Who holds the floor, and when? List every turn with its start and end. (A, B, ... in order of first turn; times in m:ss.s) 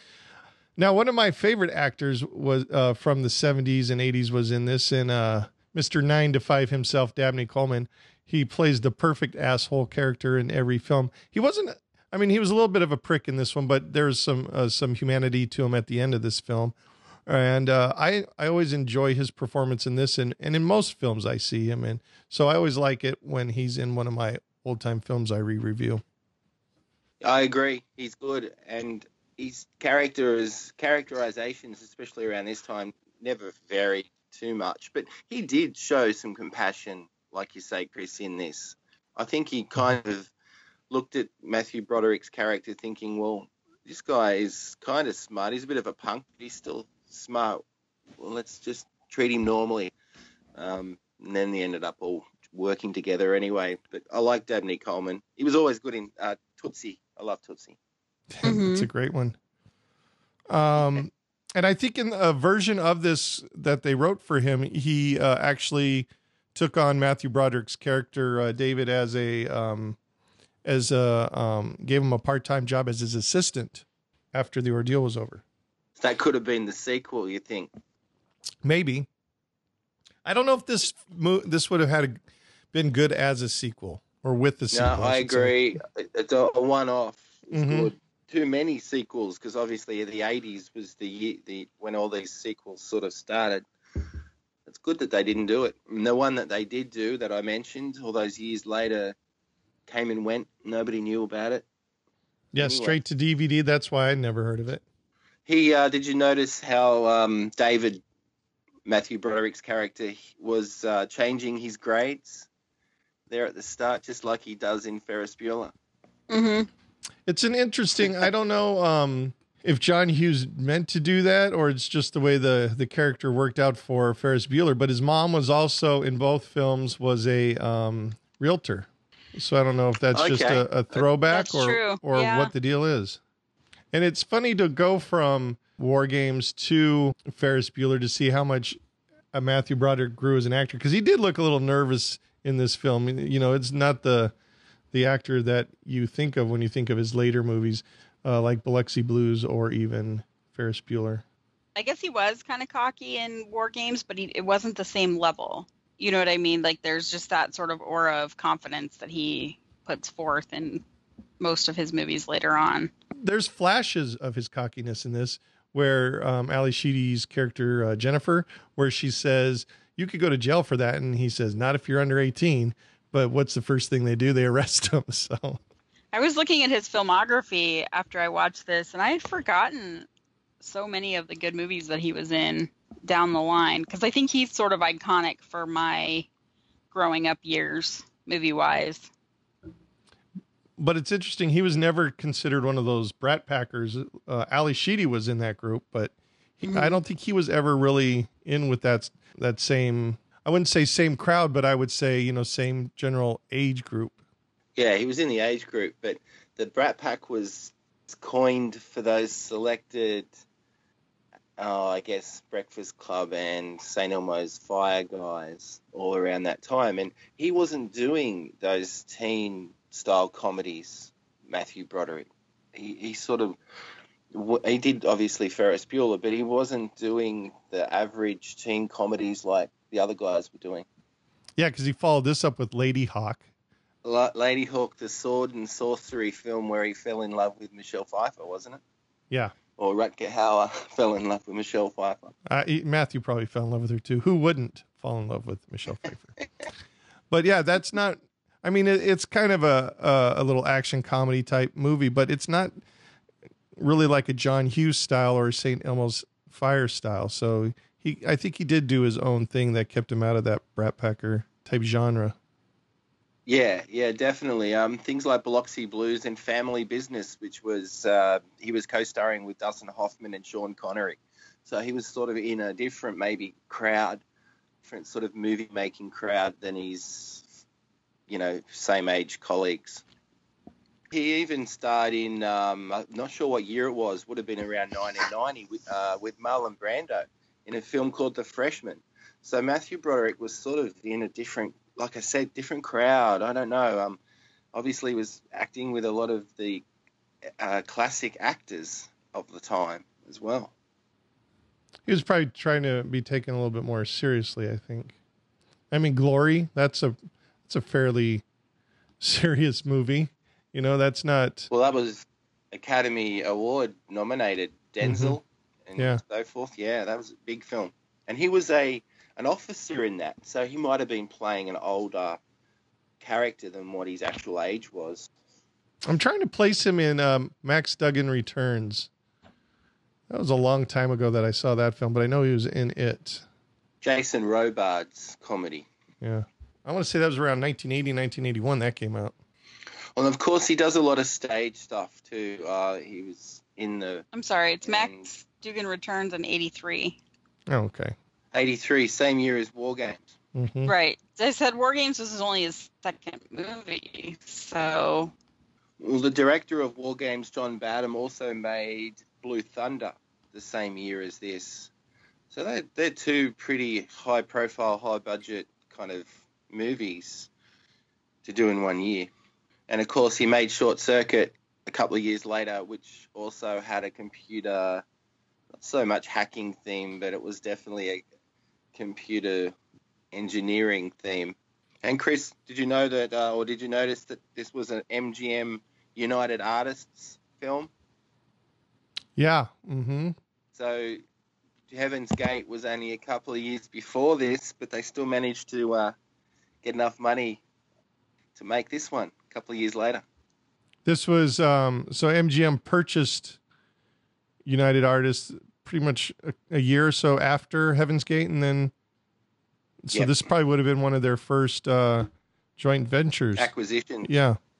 0:00.8-0:16.7 A
0:17.3-0:26.0 A
0:27.2-0:40.3 B
0:40.9-0:47.6 B
0:48.2-0:49.9 B
0:50.5-0:57.8 B
0:58.3-0:59.4 A
0:58.4-0:58.9 C
1:00.5-1:10.0 A
1:10.6-1:15.4 A
1:16.0-1:17.7 B
1:18.6-1:19.1 A
1:20.2-1:22.2 A
1:22.7-1:25.5 A
1:24.7-1:33.6 B
1:27.5-1:27.9 A
1:34.7-1:39.1 B
1:39.9-1:41.6 B
1:42.5-1:44.8 A
1:42.6-1:43.0 B
1:45.4-1:48.0 B
1:48.8-1:52.5 B
1:53.3-1:55.7 B
1:56.3-1:56.7 C
1:57.2-2:13.2 A
2:10.1-2:10.6 B
2:11.3-2:12.5 C
2:13.9-2:18.8 A
2:19.3-2:24.3 A
2:24.9-2:31.2 A
2:31.8-2:40.8 C
2:41.4-2:42.9 C
2:43.2-2:55.6 A
2:56.1-3:00.1 C
3:00.6-3:06.3 C
3:06.9-3:09.1 C
3:10.8-3:24.2 A
3:16.6-3:17.0 C
3:24.8-3:30.3 B
3:31.6-3:43.6 B
3:44.3-3:50.8 B
3:51.6-3:53.4 A
3:54.0-3:58.8 B
3:59.8-4:02.3 B
4:02.4-4:06.3 A
4:07.3-4:12.8 A
4:13.8-4:22.4 A
4:23.4-4:34.2 B
4:34.8-4:37.4 B
4:38.3-4:40.0 B
4:41.1-4:54.2 B
4:54.7-4:56.8 B
4:57.6-5:00.7 B
5:02.0-5:05.2 A
5:05.9-5:07.2 A
5:07.7-5:08.4 A
5:09.2-5:11.7 A
5:11.7-5:22.4 B
5:15.0-5:15.4 A
5:23.2-5:25.3 B
5:26.0-5:29.1 A
5:30.3-5:33.4 A
5:34.0-5:35.9 B
5:36.2-5:39.3 A
5:40.1-5:44.2 B
5:44.3-5:47.2 C
5:44.8-5:45.3 B
5:47.7-5:48.1 A
5:48.5-5:50.3 B
5:50.5-5:50.9 A
5:50.8-5:55.3 C
5:56.0-6:01.9 B
6:02.5-6:07.5 B
6:08.4-6:09.3 B
6:09.9-6:15.0 B
6:15.7-6:18.2 B
6:18.9-6:19.7 B
6:20.3-6:27.9 B
6:29.4-6:30.4 A
6:30.7-6:31.2 B
6:31.9-6:36.1 B
6:36.8-6:37.6 B
6:38.6-6:40.2 B
6:41.0-6:43.6 A
6:44.6-6:48.9 A
6:50.0-6:53.7 A
6:53.6-6:54.3 B
6:54.2-6:54.6 A